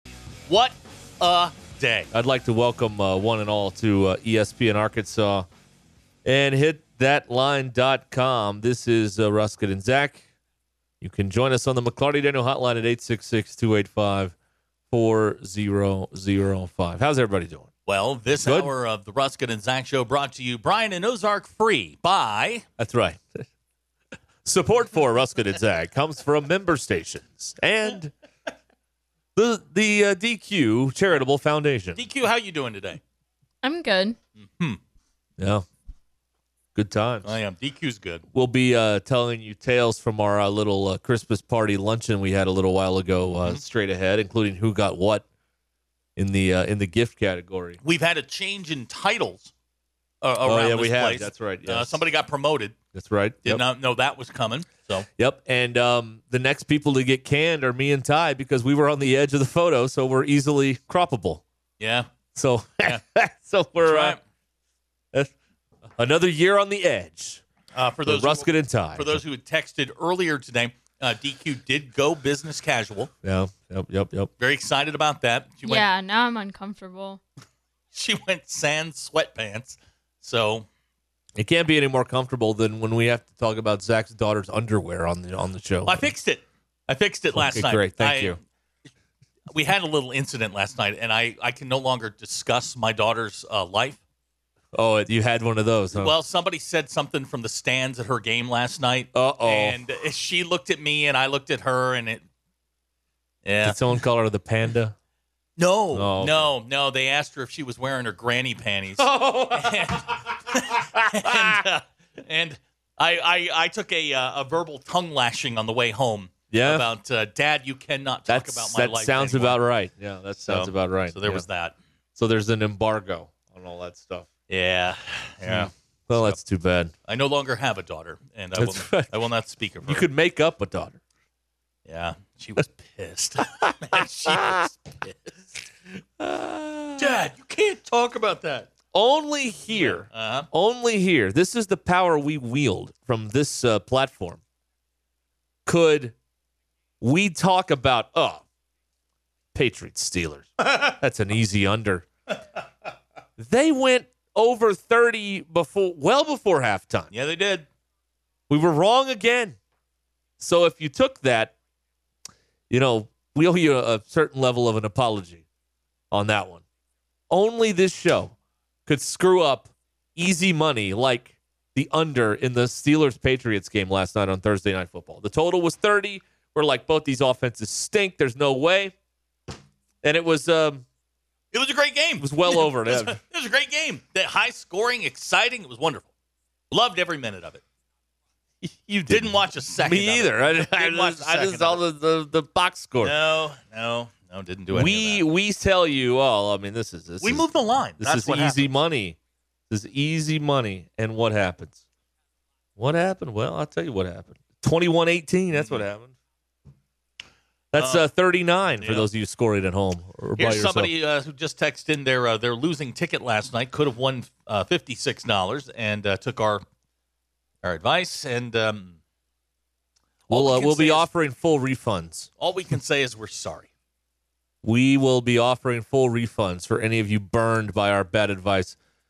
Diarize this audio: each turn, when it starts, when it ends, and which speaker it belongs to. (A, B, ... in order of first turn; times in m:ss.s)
0:00.5-0:02.1 A
0:02.1-0:05.5 B
0:06.2-0:10.2 B
0:11.0-0:14.3 B
0:14.9-0:17.7 B
0:17.9-0:22.6 A
0:18.4-0:18.7 B
0:22.8-0:23.4 B
0:24.4-0:28.1 B
0:29.4-0:32.0 B
0:31.9-0:33.0 A
0:33.6-0:34.2 C
0:34.4-0:34.8 A
0:35.4-0:35.6 B
0:36.7-0:37.3 B
0:37.2-0:38.2 A
0:38.3-0:45.2 B
0:46.2-0:47.8 B
0:47.8-0:49.5 A
0:50.2-0:52.8 A
0:50.4-0:52.0 B
0:52.9-0:53.6 B
0:53.4-0:55.1 A
0:55.2-1:01.4 B
1:01.8-1:02.1 A
1:02.3-1:04.2 B
1:03.8-1:04.2 A
1:06.0-1:07.4 B
1:07.7-1:13.1 A
1:08.0-1:09.2 B
1:13.2-1:14.3 B
1:14.4-1:15.8 A
1:15.6-1:17.2 C
1:17.9-1:20.7 A
1:21.4-1:26.1 B
1:25.8-1:28.4 A
1:27.3-1:28.4 B
1:29.5-1:34.0 A
1:34.7-1:36.1 B
1:35.9-1:42.2 A
1:39.1-1:39.8 B
1:43.4-1:43.8 A
1:43.6-1:44.9 B
1:45.6-1:59.6 A
1:45.9-1:46.5 B
1:49.0-1:51.6 B
1:56.5-1:56.9 B
1:58.3-2:01.4 B
2:00.4-2:01.7 A
2:02.2-2:04.3 B
2:04.5-2:06.4 A
2:05.4-2:06.9 B
2:07.0-2:10.1 A
2:08.6-2:09.1 B
2:09.8-2:11.0 B
2:11.8-2:15.3 A
2:13.6-2:14.6 B
2:16.2-2:17.2 B
2:17.0-2:18.7 A
2:18.9-2:24.4 B
2:19.7-2:20.5 A
2:25.6-2:26.1 B
2:27.0-2:28.4 B
2:29.5-2:32.1 B
2:33.4-2:37.1 B
2:37.1-2:37.6 A
2:38.5-2:39.6 B
2:40.4-2:41.5 B
2:42.7-2:45.4 B
2:46.1-2:46.6 B
2:47.3-2:48.3 B
2:48.8-2:58.9 B
3:00.0-3:00.8 B
3:01.5-3:06.1 A
3:02.2-3:03.2 B
3:06.7-3:07.6 A
3:08.6-3:13.2 B
3:09.1-3:11.8 A
3:13.0-3:15.2 A
3:14.7-3:17.4 B
3:17.2-3:18.7 A
3:18.0-3:19.2 B
3:19.7-3:21.8 B
3:22.8-3:26.1 B
3:25.5-3:25.8 A
3:27.7-3:30.9 B
3:27.8-3:28.1 A
3:28.8-3:29.1 A
3:30.4-3:36.6 A
3:37.6-3:39.0 A
3:40.3-3:41.1 A
3:40.3-3:42.3 B
3:42.4-3:43.7 A
3:44.6-3:48.8 B